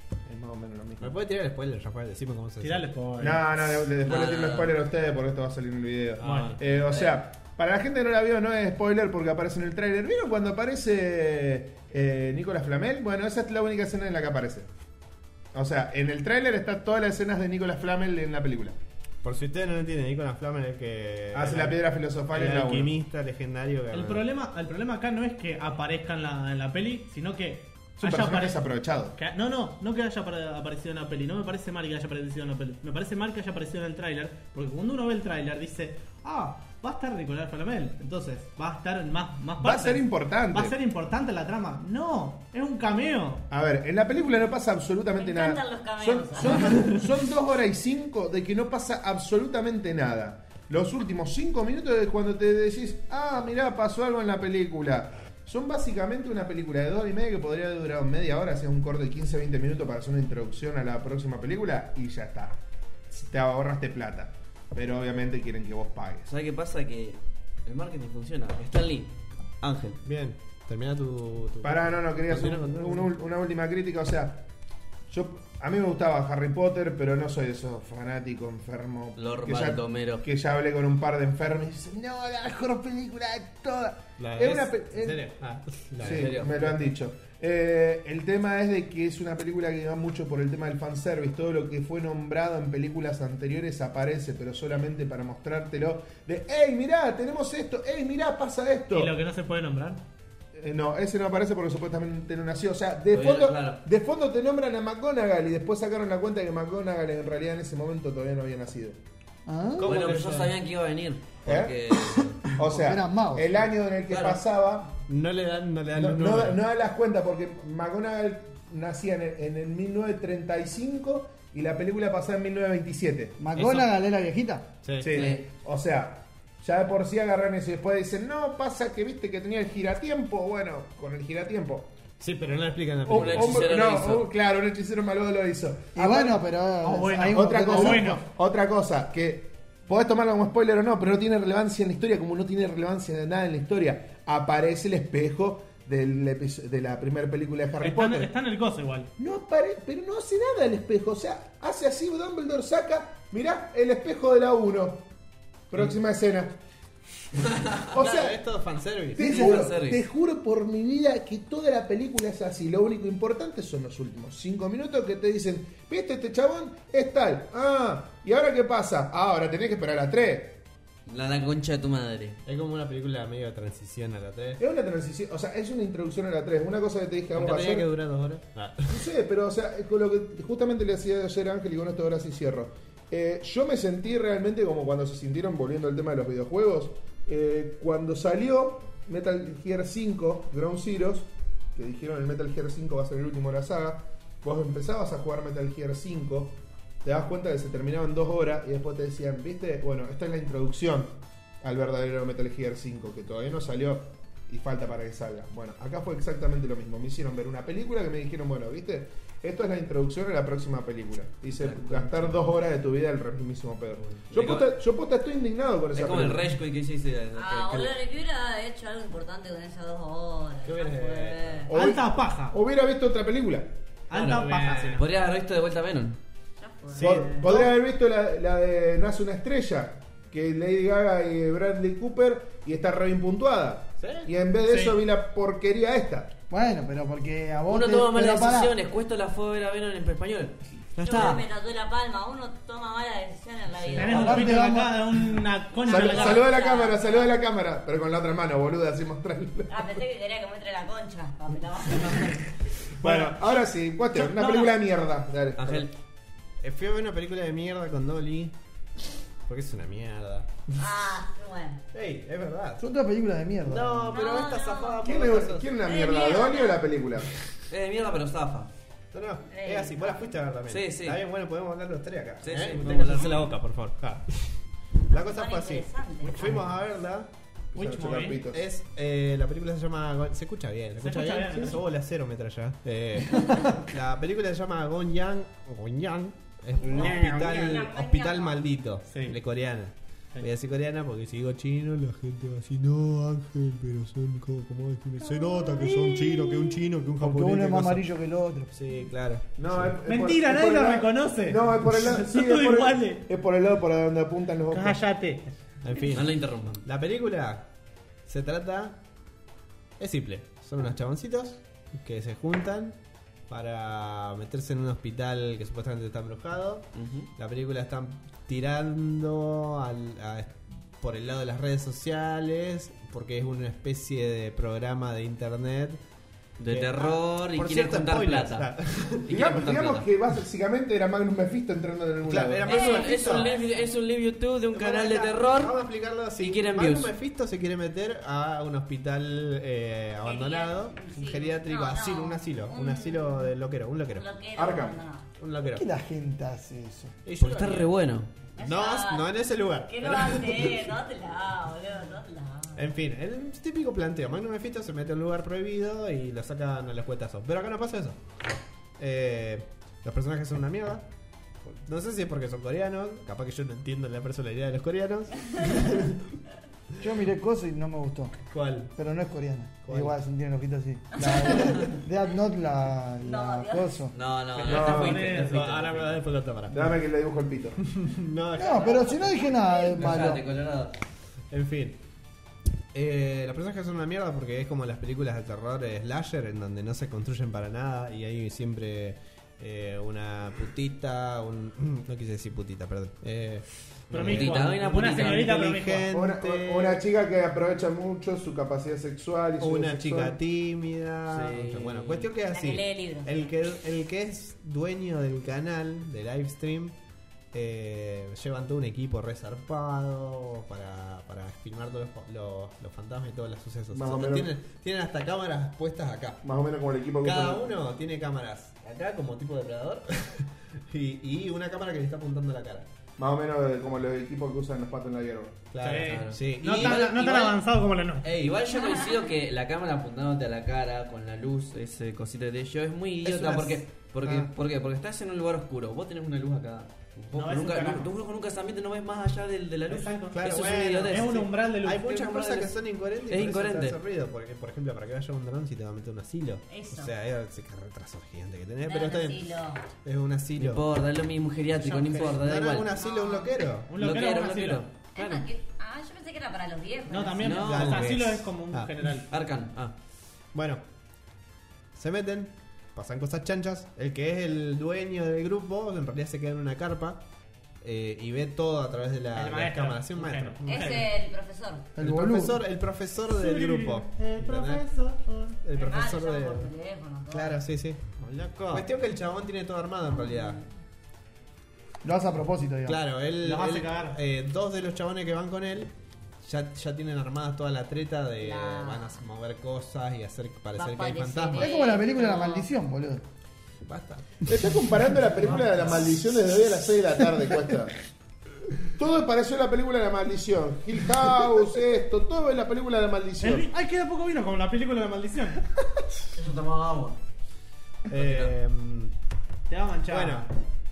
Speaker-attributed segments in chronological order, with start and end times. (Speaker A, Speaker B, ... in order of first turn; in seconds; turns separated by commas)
Speaker A: 0.2-1.1, Speaker B: 1.0-2.9, Speaker C: 2.6-3.7, Speaker A: 3.2-14.7, Speaker D: 4.0-4.7, Speaker B: 6.2-6.5, Speaker C: 6.2-6.6, Speaker D: 6.3-7.2, Speaker A: 15.5-18.8, Speaker B: 19.2-24.2, Speaker A: 21.3-22.9, Speaker C: 23.9-28.6, Speaker A: 28.0-29.1, Speaker C: 29.1-43.5, Speaker A: 39.6-40.8, Speaker A: 43.5-62.6, Speaker E: 45.2-46.8, Speaker A: 63.1-66.3, Speaker D: 66.3-70.0, Speaker B: 70.0-73.1, Speaker A: 71.6-74.4, Speaker A: 75.1-85.3, Speaker D: 79.2-80.2, Speaker B: 84.2-86.7, Speaker D: 86.0-86.7, Speaker A: 86.0-99.1, Speaker C: 98.9-100.0, Speaker A: 100.5-109.0, Speaker D: 103.1-103.8, Speaker F: 109.5-109.9, Speaker B: 109.8-110.5, Speaker D: 109.8-112.5, Speaker A: 111.5-111.8, Speaker A: 112.5-114.9, Speaker F: 112.7-113.5, Speaker D: 114.1-114.4, Speaker B: 115.1-116.6, Speaker A: 116.0-123.4, Speaker F: 123.4-124.8, Speaker B: 123.5-123.9, Speaker B: 124.8-125.2, Speaker A: 125.0-131.9, Speaker D: 125.0-125.4, Speaker B: 132.2-133.8, Speaker A: 133.1-136.3, Speaker D: 133.1-134.3, Speaker F: 135.9-138.1, Speaker C: 136.8-138.2, Speaker A: 137.3-148.3, Speaker C: 147.8-149.1, Speaker A: 149.2-155.0, Speaker A: 155.7-156.5, Speaker A: 157.8-158.4, Speaker B: 157.9-159.4, Speaker A: 159.1-170.6, Speaker F: 159.2-159.8, Speaker D: 159.2-160.0, Speaker D: 171.1-172.4, Speaker B: 172.4-174.6, Speaker A: 174.6-177.9, Speaker B: 177.3-179.1, Speaker A: 178.9-216.5, Speaker D: 211.5-212.4, Speaker D: 214.1-214.7, Speaker D: 215.9-217.9, Speaker E: 217.3-221.7, Speaker B: 220.6-221.7, Speaker A: 221.7-223.7, Speaker C: 221.7-222.6, Speaker C: 224.1-225.1, Speaker D: 224.1-226.2, Speaker B: 224.6-225.0, Speaker E: 226.6-227.5, Speaker B: 226.9-227.7, Speaker A: 227.0-236.3, Speaker B: 234.0-234.3, Speaker C: 234.7-235.0, Speaker F: 236.5-238.7, Speaker D: 237.7-241.4, Speaker E: 241.0-244.6, Speaker B: 243.7-244.3, Speaker C: 243.9-246.5, Speaker F: 244.1-245.1, Speaker E: 245.7-247.3, Speaker A: 245.8-249.9, Speaker E: 249.7-252.4, Speaker A: 253.0-255.9, Speaker C: 253.0-253.3, Speaker C: 254.1-254.7, Speaker D: 255.6-255.9, Speaker B: 256.6-258.5, Speaker B: 259.5-260.5, Speaker E: 260.8-261.8, Speaker B: 261.9-262.8, Speaker F: 262.8-264.2, Speaker B: 263.6-265.7, Speaker E: 264.1-265.0, Speaker A: 265.0-267.3, Speaker E: 265.8-266.8, Speaker D: 267.7-268.7, Speaker B: 269.1-277.3, Speaker E: 269.5-270.2, Speaker D: 270.7-271.2, Speaker D: 272.4-273.5, Speaker E: 275.1-276.4, Speaker C: 277.7-278.4, Speaker A: 277.7-278.6, Speaker B: 278.5-298.1, Speaker C: 281.0-281.8, Speaker E: 286.8-288.6, Speaker C: 289.1-289.4, Speaker C: 295.4-296.8, Speaker F: 297.2-298.7, Speaker B: 298.7-299.9, Speaker A: 299.6-305.0, Speaker C: 300.0-303.2, Speaker C: 304.7-305.5, Speaker B: 305.8-307.7, Speaker D: 306.1-306.8, Speaker B: 308.2-309.0, Speaker B: 310.0-313.0, Speaker B: 313.5-326.0, Speaker D: 316.9-317.3, Speaker D: 326.6-328.7, Speaker B: 326.7-329.5, Speaker D: 329.2-330.1, Speaker A: 329.3-332.7, Speaker B: 332.2-333.5, Speaker E: 332.7-333.9, Speaker D: 332.7-335.8, Speaker B: 334.7-344.3, Speaker D: 336.4-337.1, Speaker E: 340.2-343.5, Speaker E: 344.1-345.2, Speaker A: 344.6-345.0, Speaker B: 345.4-345.8, Speaker F: 345.7-347.1, Speaker B: 347.2-347.9, Speaker D: 347.3-348.3, Speaker E: 348.5-352.9, Speaker B: 348.6-350.9, Speaker B: 352.8-358.2, Speaker B: 359.0-361.1, Speaker B: 361.6-366.3, Speaker F: 367.0-368.3, Speaker B: 368.5-368.9, Speaker F: 368.9-374.1, Speaker B: 369.9-370.1, Speaker E: 371.1-371.9, Speaker E: 373.2-374.0, Speaker D: 374.1-376.2, Speaker C: 374.6-375.8, Speaker A: 374.6-375.2, Speaker B: 374.7-376.9, Speaker A: 376.7-377.8, Speaker B: 377.8-379.5, Speaker F: 378.6-380.4, Speaker D: 379.9-380.9, Speaker B: 381.5-382.0, Speaker B: 382.9-397.0, Speaker D: 394.1-395.5, Speaker C: 394.1-396.1, Speaker A: 396.1-400.4, Speaker B: 399.6-406.9, Speaker D: 401.3-402.3, Speaker E: 402.4-403.5, Speaker B: 407.5-416.4, Speaker A: 413.9-414.5, Speaker A: 416.4-417.7, Speaker B: 417.2-422.9, Speaker A: 423.2-425.6, Speaker B: 425.7-427.3, Speaker C: 425.8-428.3, Speaker D: 426.0-427.5, Speaker D: 428.2-441.5, Speaker E: 428.8-429.1, Speaker B: 433.2-434.5, Speaker C: 437.3-438.1, Speaker C: 439.9-440.5, Speaker B: 440.3-450.8, Speaker C: 441.1-442.1, Speaker D: 442.1-442.7, Speaker D: 443.3-443.9, Speaker E: 446.7-447.1, Speaker E: 448.9-449.8, Speaker D: 450.6-452.9, Speaker B: 451.8-454.0, Speaker C: 452.0-452.4, Speaker E: 452.9-453.6, Speaker C: 453.9-454.8, Speaker D: 454.0-455.4, Speaker E: 455.1-457.6, Speaker C: 457.1-459.3, Speaker D: 457.4-458.2, Speaker B: 457.6-458.9, Speaker D: 459.3-459.9, Speaker B: 460.5-460.8, Speaker B: 461.9-467.2, Speaker B: 467.8-471.1, Speaker C: 469.3-471.1, Speaker E: 470.6-471.9, Speaker F: 471.9-472.6, Speaker B: 472.0-474.8, Speaker C: 473.3-475.6, Speaker B: 475.6-476.7, Speaker E: 475.8-477.6, Speaker B: 477.3-478.1, Speaker D: 478.2-478.9, Speaker B: 478.7-480.6, Speaker F: 482.0-483.0, Speaker B: 482.9-491.7, Speaker C: 483.4-484.2, Speaker E: 488.4-489.2, Speaker E: 490.7-492.7, Speaker F: 491.6-493.2, Speaker B: 493.9-494.5, Speaker A: 494.4-497.9, Speaker C: 495.5-496.1, Speaker A: 498.9-503.7, Speaker C: 503.4-505.6, Speaker D: 506.3-507.2, Speaker B: 508.1-509.1, Speaker D: 508.2-508.5, Speaker C: 509.7-510.5, Speaker B: 510.1-510.5